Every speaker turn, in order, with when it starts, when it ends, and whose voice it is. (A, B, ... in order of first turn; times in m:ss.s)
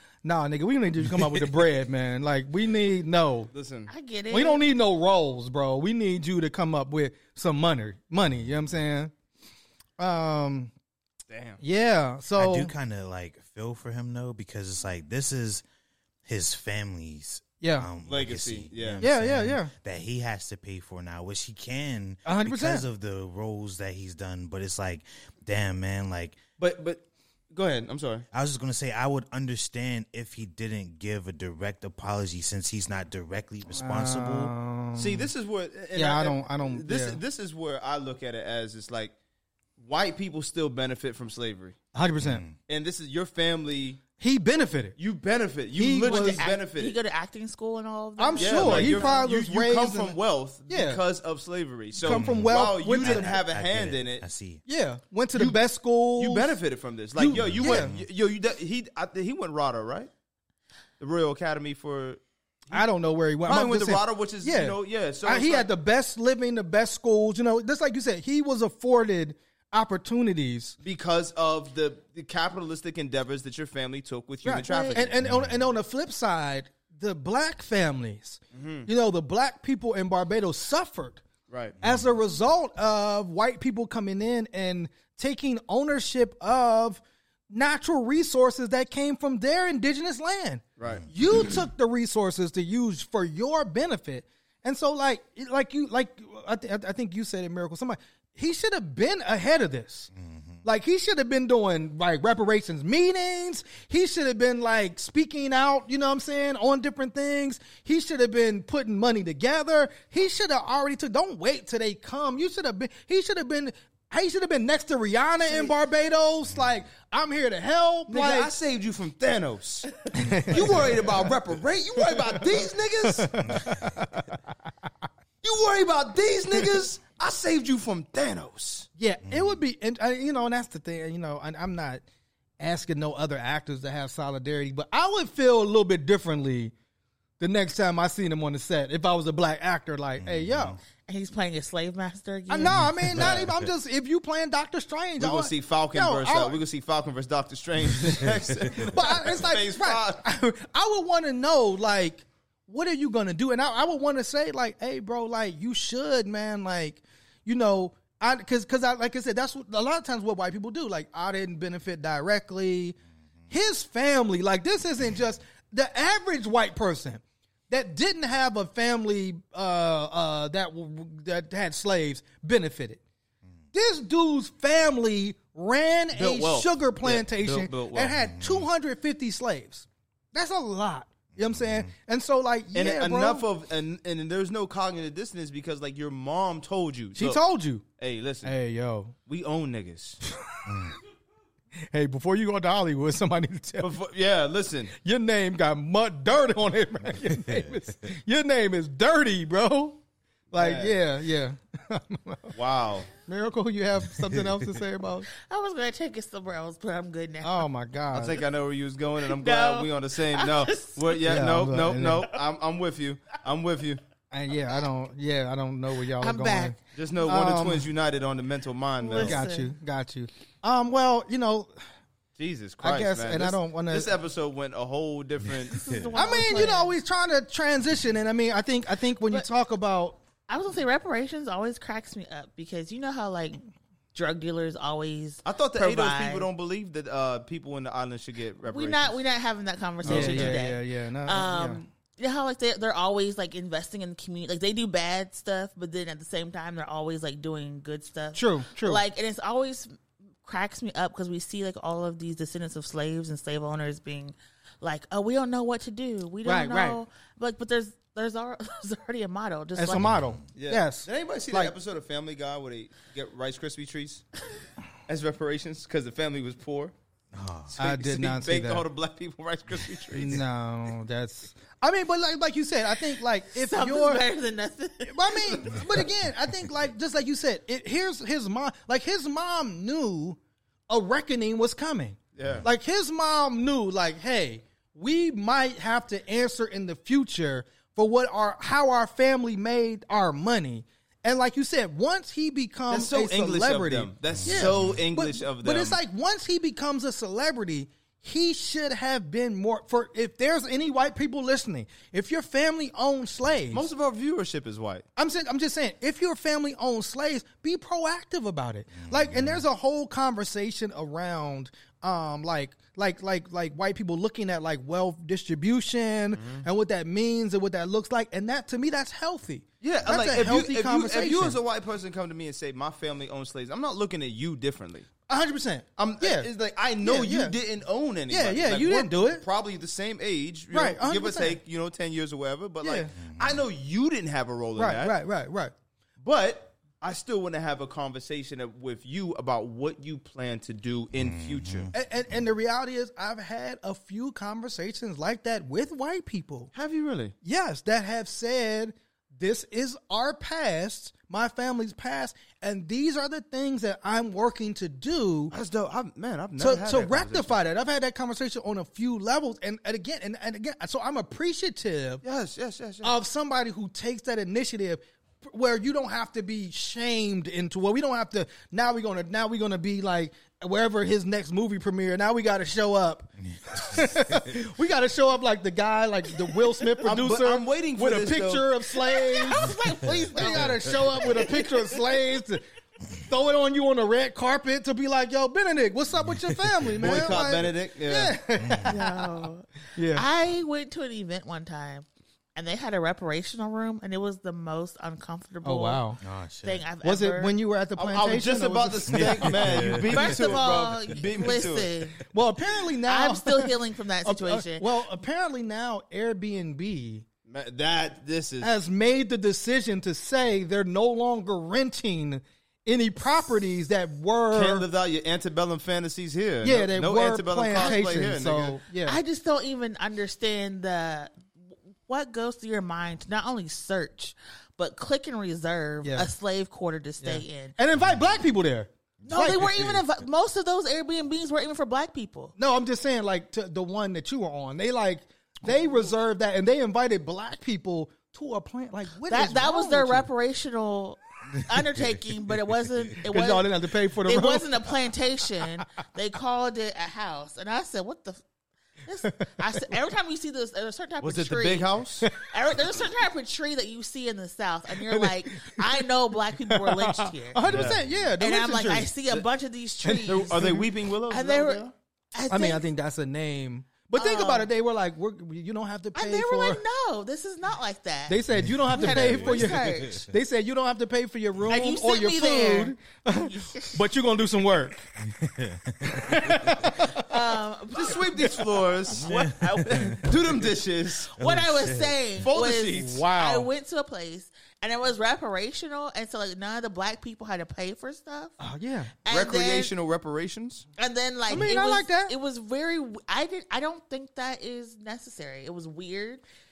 0:00.2-0:03.5 A
0:03.5-0:03.9 B
0:03.9-0:04.6 C
0:04.3-0:09.1 A
0:10.0-0:10.7 A
0:11.3-0:11.6 B
0:11.6-0:12.7 A
0:12.4-0:15.6 D
0:16.2-0:26.4 D
0:17.6-0:17.9 A
0:18.1-0:19.0 B
0:19.0-0:19.7 A
0:22.3-0:22.8 A
0:26.6-0:28.2 B
0:28.3-0:34.5 D
0:33.8-0:35.3 A
0:35.0-0:39.1 B
0:36.0-0:37.2 A
0:39.8-0:41.8 B
0:41.9-0:42.4 A
0:42.2-0:42.6 D
0:42.7-0:44.0 B
0:44.2-0:45.0 A
0:45.0-0:47.0 B
0:45.8-0:46.4 A
0:46.0-0:49.3 C
0:48.2-0:50.2 A
0:48.4-0:54.2 B
0:50.7-0:51.0 A
0:52.0-0:53.4 A
0:52.1-0:54.6 D
0:54.7-0:56.6 A
0:55.3-0:55.6 B
0:56.2-1:00.1 B
0:57.2-0:57.9 A
0:57.3-0:58.1 D
1:01.0-1:02.2 B
1:02.7-1:10.8 A
1:03.4-1:05.7 B
1:10.8-1:15.2 B
1:14.4-1:21.2 A
1:14.6-1:15.0 C
1:15.2-1:15.6 D
1:18.5-1:18.9 B
1:21.5-1:21.8 B
1:21.8-1:22.1 D
1:21.8-1:40.1 A
1:30.8-1:31.3 B
1:40.1-1:40.6 D
1:40.6-1:58.5 A
1:58.1-1:59.9 B
2:00.1-2:01.1 A
2:00.4-2:03.5 B
2:02.1-2:04.3 A
2:05.4-2:08.9 B
2:09.0-2:12.0 A
2:09.2-2:09.6 D
2:12.6-2:16.7 A
2:17.4-2:20.8 A
2:20.2-2:20.8 D
2:21.1-2:22.8 C
2:22.5-2:26.6 A
2:22.7-2:23.5 D
2:23.2-2:23.5 B
2:25.2-2:30.2 B
2:28.8-2:43.0 A
2:43.5-2:53.0 A
2:53.7-3:03.5 A
2:56.2-2:58.2 B
2:58.3-2:58.7 D
3:01.4-3:01.9 D
3:02.7-3:07.4 B
3:07.2-3:07.8 A
3:08.0-3:08.5 B
3:08.4-3:09.2 A
3:09.3-3:10.2 B
3:10.5-3:10.9 A
3:10.7-3:11.0 D
3:11.9-3:13.9 A
3:13.8-3:14.9 B
3:15.0-3:20.0 A
3:17.5-3:17.7 D
3:20.5-3:22.5 A
3:20.5-3:21.0 B
3:22.5-3:23.1 B
3:23.2-3:25.3 A
3:24.1-3:24.4 D
3:25.4-3:27.7 C
3:27.4-3:28.4 A
3:28.1-3:34.0 B
3:29.3-3:31.3 C
3:31.3-3:32.3 A
3:34.3-3:37.9 A
3:36.2-3:36.8 C
3:36.9-3:39.4 B
3:39.0-3:39.7 C
3:39.1-3:41.7 A
3:42.4-3:45.8 B
3:42.8-3:44.1 A
3:45.7-3:47.0 C
3:46.2-3:50.2 A
3:50.5-3:53.6 C
3:54.1-3:56.5 C
3:55.4-3:59.2 B
3:58.6-4:20.1 C
4:00.0-4:00.6 B
4:00.0-4:01.8 A
4:08.4-4:09.0 A
4:16.4-4:17.0 A
4:19.8-4:21.7 A
4:19.9-4:20.4 D
4:20.5-4:24.2 B
4:25.1-4:26.9 B
4:27.3-4:27.8 D
4:27.8-4:30.4 B
4:27.8-4:28.8 A
4:30.1-4:34.2 A
4:33.5-4:35.8 C
4:35.1-4:40.4 A
4:40.9-5:03.8 A
4:42.4-4:42.7 B
4:52.9-4:56.0 B
4:54.3-4:55.0 D
5:03.7-5:05.0 B
5:05.2-5:21.6 A
5:09.0-5:09.6 D
5:16.4-5:16.6 B
5:19.8-5:25.1 B
5:25.3-5:26.5 A
5:26.0-5:35.2 B
5:27.0-5:27.6 A
5:28.3-5:29.4 A
5:30.7-5:31.6 A
5:32.8-5:33.1 A
5:33.2-5:33.6 D
5:34.8-5:35.7 A
5:36.2-5:41.9 B
5:41.2-5:41.9 D
5:41.9-5:46.7 A
5:46.7-5:47.3 B
5:47.4-5:55.5 A
5:55.5-5:57.6 B
5:56.6-6:02.2 A
6:02.2-6:03.1 B
6:03.0-6:30.3 A
6:13.6-6:14.5 D
6:17.0-6:18.7 B
6:19.0-6:22.2 C
6:26.3-6:27.3 D
6:27.0-6:28.3 B
6:28.6-6:28.9 D
6:28.9-6:36.0 C
6:35.6-6:36.2 A
6:36.2-6:36.8 D
6:36.6-6:37.6 C
6:37.0-6:40.0 A
6:38.0-6:42.0 B
6:39.1-6:40.1 D
6:40.1-6:42.2 C
6:42.3-6:47.2 A
6:43.1-6:44.8 C
6:47.5-6:48.7 B
6:48.6-6:54.9 A
6:54.5-6:58.8 B
6:56.6-6:59.2 A
6:59.0-7:01.4 C
7:02.1-7:07.8 C
7:06.0-7:06.3 A
7:07.2-7:09.7 A
7:09.2-7:10.0 D
7:09.3-7:12.5 C
7:12.6-7:20.3 A
7:19.2-7:23.7 C
7:23.3-7:24.9 A
7:24.2-7:28.4 C
7:29.1-7:37.6 C
7:31.2-7:32.3 B
7:32.2-7:32.5 A
7:35.0-7:36.1 A
7:36.6-7:39.1 A
7:37.6-7:38.0 B
7:37.7-7:38.1 D
7:38.4-7:40.8 C
7:40.0-7:40.9 A
7:40.3-7:41.9 B
7:41.3-7:42.9 C
7:42.5-7:46.8 A
7:44.1-7:44.7 C
7:46.1-7:50.2 C
7:48.3-7:55.1 A
7:48.6-7:50.2 D
7:51.7-7:52.9 C
7:53.5-7:54.0 C
7:55.3-7:56.9 D
7:56.0-7:57.4 A
7:57.0-7:58.5 C
7:58.0-8:01.3 B
7:59.2-8:00.3 D
7:59.9-8:00.2 A
8:01.4-8:08.5 C
8:01.4-8:02.2 D
8:02.4-8:03.3 B
8:03.0-8:03.7 A
8:08.6-8:09.2 A
8:09.2-8:09.9 C
8:09.3-8:10.9 B
8:11.0-8:16.4 C
8:11.5-8:12.4 A